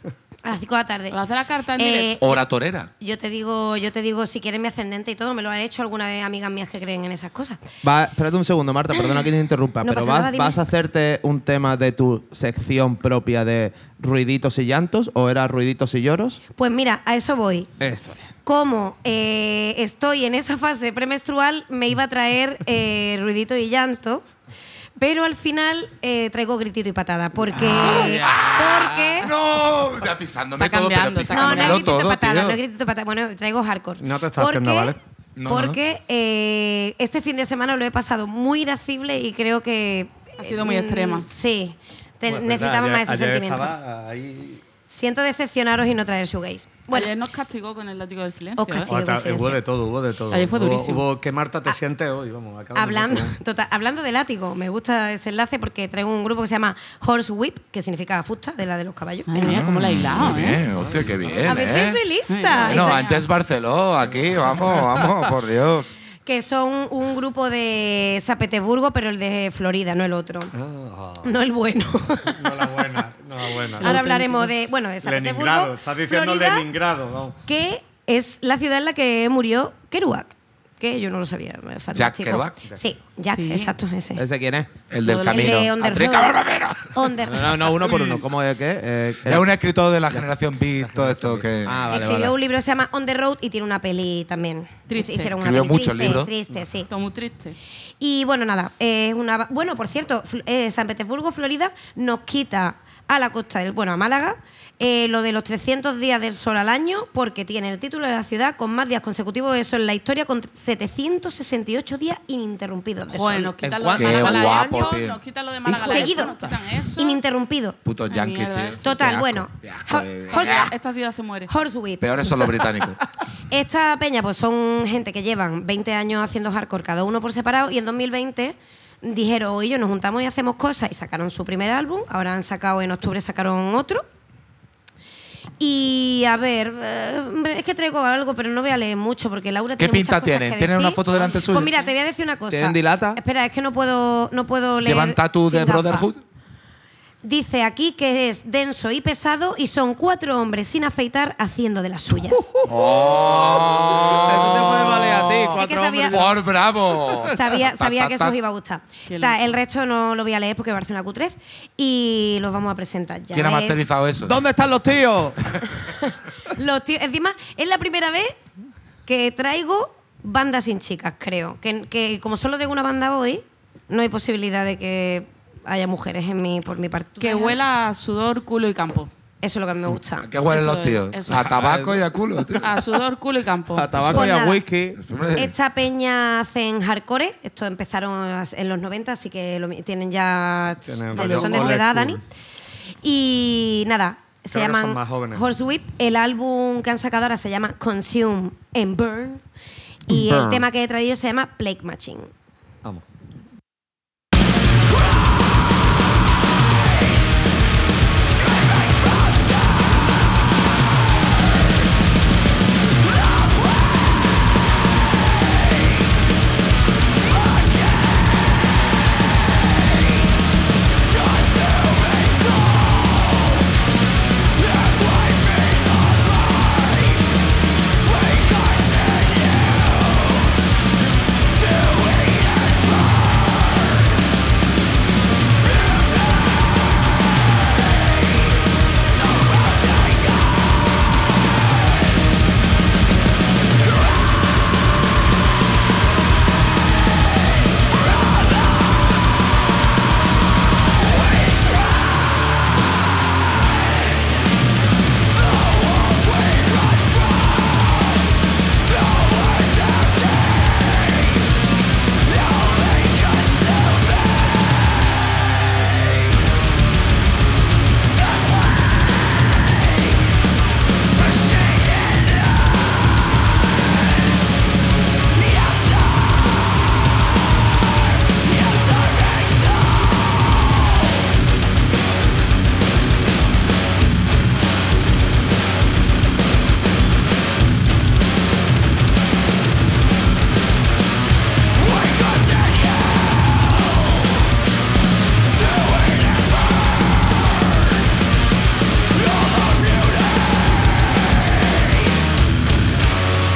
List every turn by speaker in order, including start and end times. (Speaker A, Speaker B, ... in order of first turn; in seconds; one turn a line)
Speaker A: 0.5-1.2
Speaker B: 1.1-2.1
Speaker A: 1.8-2.4
Speaker C: 2.2-2.9
Speaker A: 3.0-7.6
Speaker D: 7.8-16.4
Speaker A: 9.8-10.6
Speaker A: 16.6-17.7
Speaker D: 17.8-18.3
Speaker A: 18.4-24.2
Speaker A: 25.0-29.3
Speaker D: 27.6-28.9
Speaker C: 27.7-32.6
Speaker B: 30.6-31.9
Speaker A: 31.3-43.8
Speaker E: 34.0-35.0
Speaker C: 35.4-35.8
Speaker B: 40.4-41.3
Speaker E: 42.3-44.6
Speaker A: 44.9-47.1
Speaker B: 46.9-48.9
Speaker A: 48.6-49.6
Speaker E: 48.9-53.4
Speaker B: 50.3-51.0
Speaker A: 52.8-59.6
Speaker B: 59.3-60.6
Speaker C: 59.4-62.0
Speaker E: 60.7-61.6
Speaker A: 61.5-63.2
Speaker B: 62.3-63.2
Speaker C: 62.6-66.0
Speaker A: 66.2-70.5
Speaker E: 70.5-71.3
Speaker A: 71.2-72.6
Speaker E: 72.3-74.0
Speaker A: 73.8-76.7
Speaker B: 73.8-74.5
Speaker E: 75.0-77.4
Speaker A: 77.5-84.2
Speaker C: 81.9-82.7
Speaker B: 83.3-83.8
Speaker D: 84.2-84.7
Speaker C: 84.9-87.1
Speaker B: 85.0-85.7
Speaker A: 85.3-86.4
Speaker A: 86.9-87.5
Speaker D: 87.3-89.5
Speaker C: 89.2-92.0
Speaker E: 90.8-91.5
Speaker D: 91.6-92.3
Speaker A: 91.9-96.9
Speaker B: 94.9-95.3
Speaker C: 95.4-96.3
Speaker B: 96.9-97.6
Speaker A: 98.0-113.5
Speaker B: 113.1-117.2
Speaker D: 113.6-115.0
Speaker C: 113.9-115.2
Speaker D: 115.7-116.5
Speaker A: 115.7-117.8
Speaker C: 117.8-120.7
Speaker B: 118.1-118.8
Speaker A: 118.8-120.7
Speaker B: 120.3-121.5
Speaker A: 121.5-122.1
Speaker C: 122.0-123.0
Speaker A: 123.5-134.0
Speaker A: 135.6-146.1
Speaker C: 139.8-141.7
Speaker D: 142.5-143.2
Speaker C: 144.8-146.2
Speaker A: 147.2-152.6
Speaker D: 152.4-156.5
Speaker C: 152.7-158.3
Speaker A: 155.5-156.4
Speaker A: 157.2-163.8
Speaker B: 159.1-159.4
Speaker C: 163.3-164.4
Speaker D: 164.2-165.6
Speaker A: 165.8-168.3
Speaker A: 169.1-177.6
Speaker B: 177.2-179.1
Speaker A: 179.4-180.3
Speaker C: 180.2-182.7
Speaker B: 180.4-181.5
Speaker D: 181.3-182.4
Speaker B: 182.6-184.0
Speaker D: 183.7-185.0
Speaker C: 184.0-184.3
Speaker A: 184.1-184.7
Speaker C: 185.0-185.5
Speaker A: 185.4-192.2
Speaker E: 190.8-192.2
Speaker B: 191.1-191.8
Speaker A: 193.0-199.4
Speaker E: 194.5-195.4
Speaker A: 200.1-202.3